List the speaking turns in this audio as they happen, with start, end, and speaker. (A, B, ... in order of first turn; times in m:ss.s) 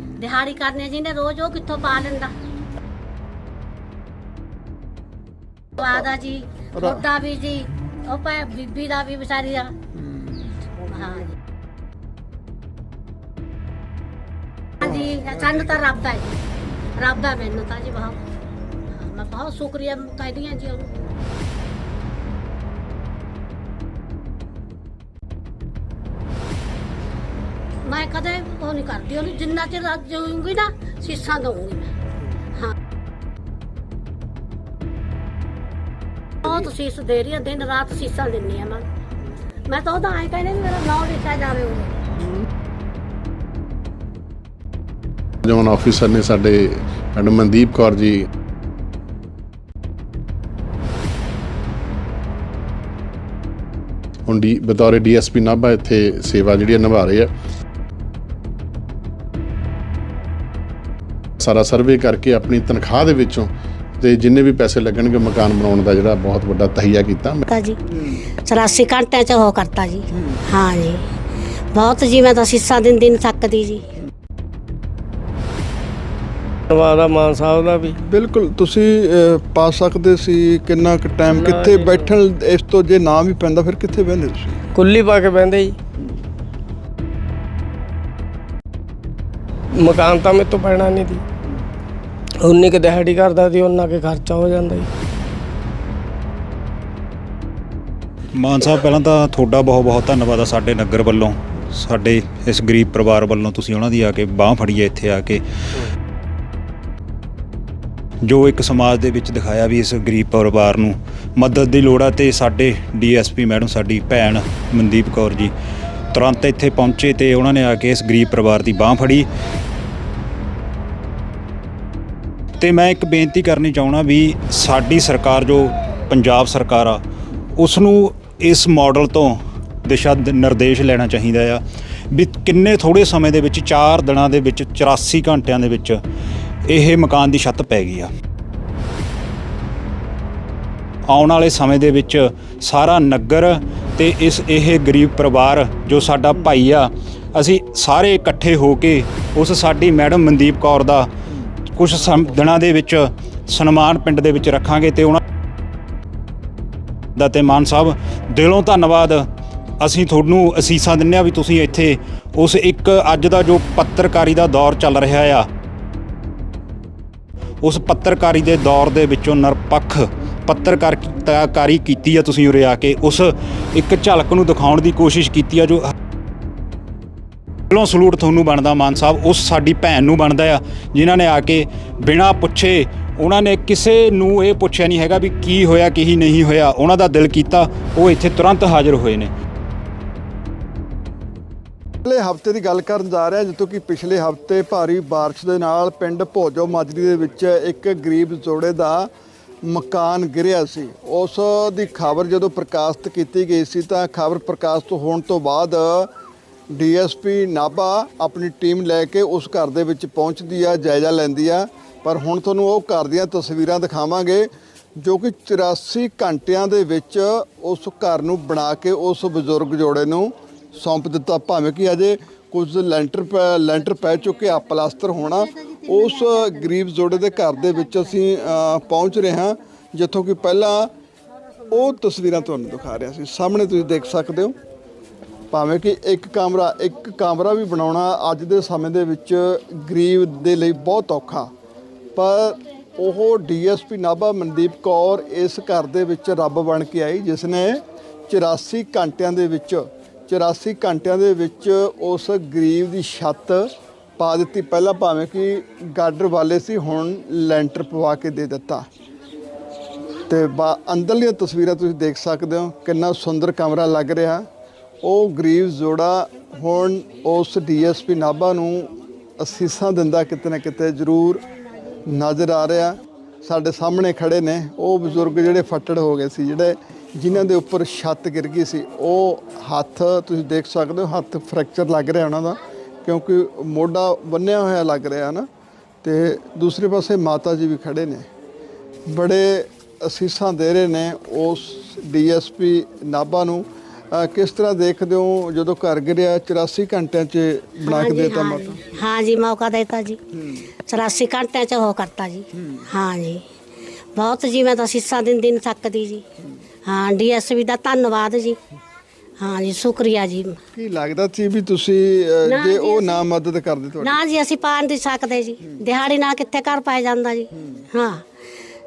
0:00.2-0:02.3 A
0:05.8-0:09.7 A
0:06.8-0:07.0 B
0:10.8-0:11.3 A
0:14.8-0:16.4 A
0:14.8-0:15.2 B
0:17.0-0:18.2 A
0:18.9-0:21.0 A
0:27.8-0:31.9 A
0:36.4-0:38.8 A
0:39.7-0:41.9 A
0:45.4-0:48.2 C
0:54.3-0:57.3 C
1:01.4-1:07.4 C
1:07.5-1:07.8 A
1:08.5-1:11.0 A
1:11.7-1:13.8 A
1:16.7-1:18.0 D
1:18.0-1:24.7 B
1:21.3-1:22.1 D
1:24.8-1:25.8 D
1:29.7-1:31.2 D
1:32.4-1:34.9 D
1:38.4-1:45.4 E
1:48.2-1:55.5 E
1:56.1-1:59.3 E
2:02.6-2:07.0 E
2:07.6-2:16.0 E
2:16.7-2:18.1 E
2:21.1-2:31.1 E
2:31.7-2:35.2 E
2:37.2-2:39.3 E
2:39.8-2:45.5 E
2:47.6-2:55.9 E
2:57.7-3:09.3 E
3:12.0-3:19.1 B
3:19.6-3:26.1 B
3:26.7-3:50.9 B
3:51.7-3:54.6 B
3:55.5-4:01.5 B
4:02.2-4:18.9 B
4:20.3-4:24.5 B
4:25.0-4:31.4 B
4:32.1-4:45.5 B
4:46.0-4:48.3 B
4:49.1-4:58.8 B
4:57.9-5:00.2 A
5:00.9-5:03.4 A
5:04.2-5:06.2 A
5:06.9-5:08.6 A
5:09.4-5:10.6 A
5:10.7-5:14.2 B
5:12.5-5:13.3 A
5:14.0-5:18.2 A